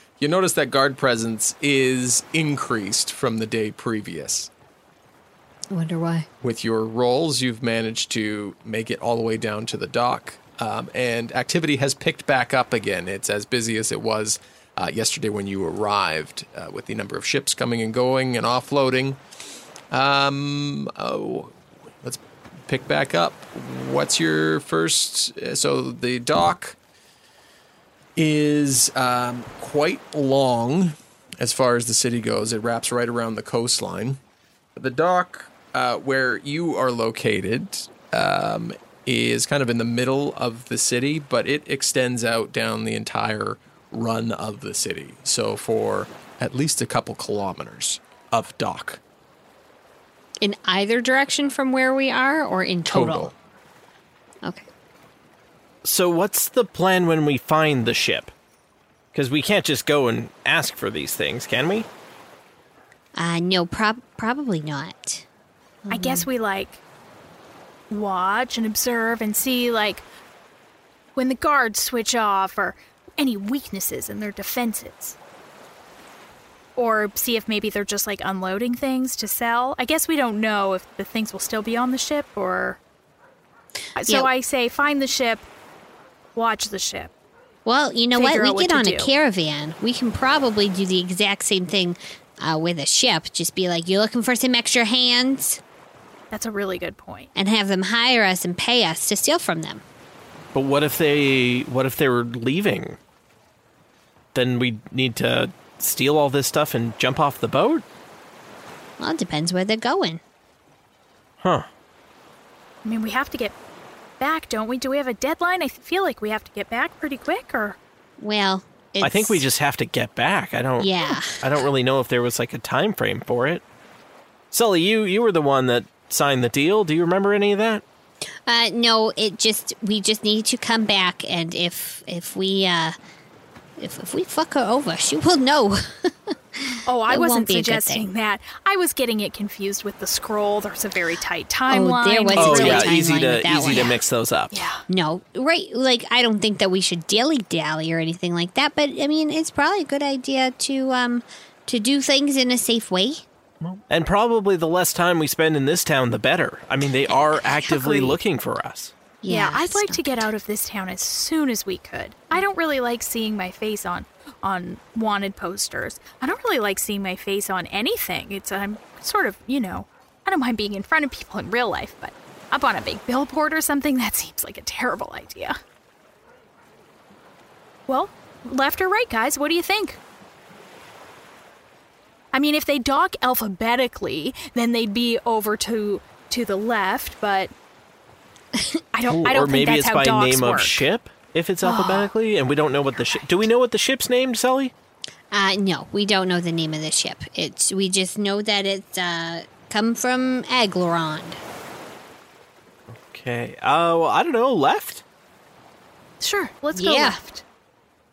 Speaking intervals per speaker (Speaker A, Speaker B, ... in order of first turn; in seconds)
Speaker A: 0.2-4.5, 6.4-19.2, 19.9-26.8, 28.1-34.2, 34.8-49.0, 52.9-53.3
Speaker B: 5.7-6.3, 50.4-53.3, 63.1-65.2, 65.8-66.3, 84.0-84.3, 87.6-95.6, 97.3-99.8, 109.0-110.2, 118.2-119.4, 120.8-121.5, 128.4-132.9, 133.8-138.1, 141.7-144.0, 144.9-153.2, 157.1-158.1, 159.2-160.2, 195.3-201.4, 206.7-207.2
Speaker C: 55.8-58.3, 59.1-61.9, 100.5-103.0, 104.3-107.8, 111.4-111.7, 119.0-123.6, 124.5-127.8, 142.3-144.6, 153.6-158.9, 189.1-194.7, 202.9-205.0
Speaker D: 65.9-66.8, 67.9-70.0, 71.2-75.2, 76.8-82.8, 84.0-85.5, 86.3-87.1, 88.1-89.1, 96.3-97.3, 112.8-113.5, 114.2-117.8, 136.8-143.0, 144.5-144.8, 159.3-175.6, 177.9-180.0, 182.3-187.5, 188.9-190.8, 191.6-192.1, 206.2-207.4